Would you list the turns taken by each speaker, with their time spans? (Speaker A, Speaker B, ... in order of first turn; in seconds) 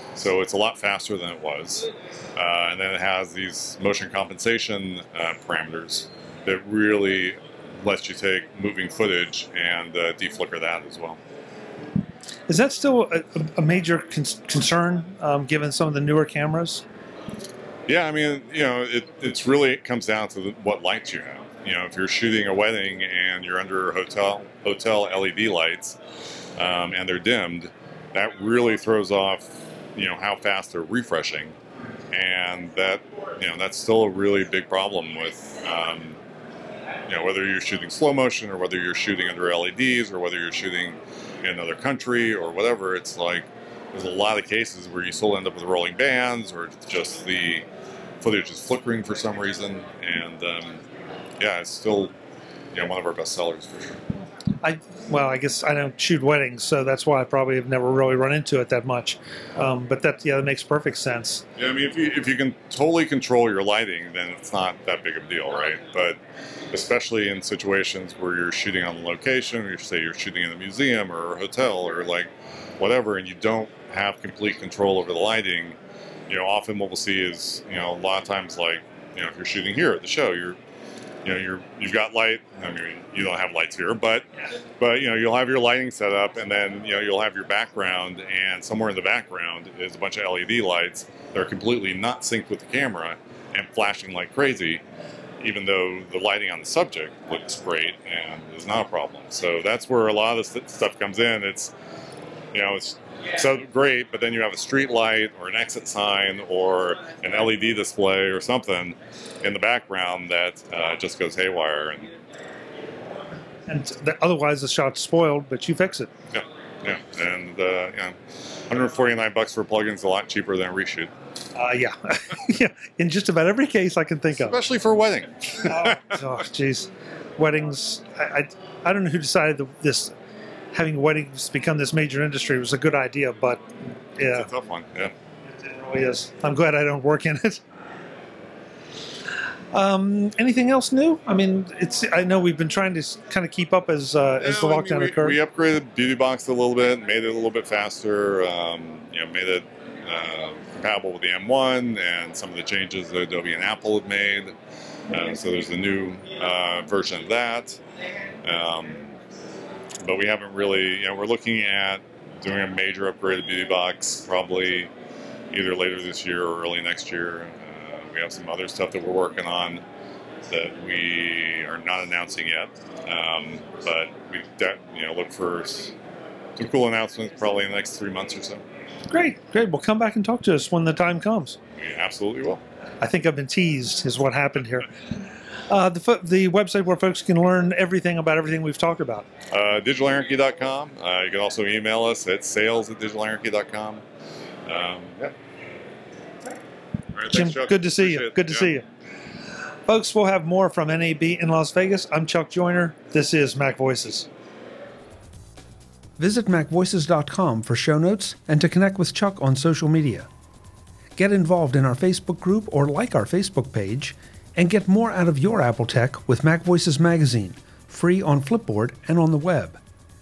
Speaker A: 0.1-11.2, 17.9-26.0, 26.6-31.5, 32.1-36.2, 37.1-47.6, 48.2-50.8, 51.4-52.1, 52.7-54.0, 61.5-66.2, 66.7-80.6, 81.2-84.2, 84.8-94.8, 95.4-101.7, 102.5-112.1, 116.3-121.1, 124.4-126.0, 134.3-135.1, 144.4-154.5, 155.1-157.8, 158.4-159.2, 160.0-164.9, 165.5-169.8, 170.5-175.9, 176.6-178.6, 181.8-182.6, 189.5-194.0, 194.7-195.3, 197.1-198.7
Speaker B: 12.5-16.8, 54.6-61.4, 113.7-116.1, 121.5-124.6, 125.6-130.1, 130.7-133.6, 134.2-134.5, 135.5-137.6, 139.7-145.3, 179.1-181.6, 183.0-189.3, 197.3-198.8, 199.9-204.3, 206.2-210.3, 211.2-219.8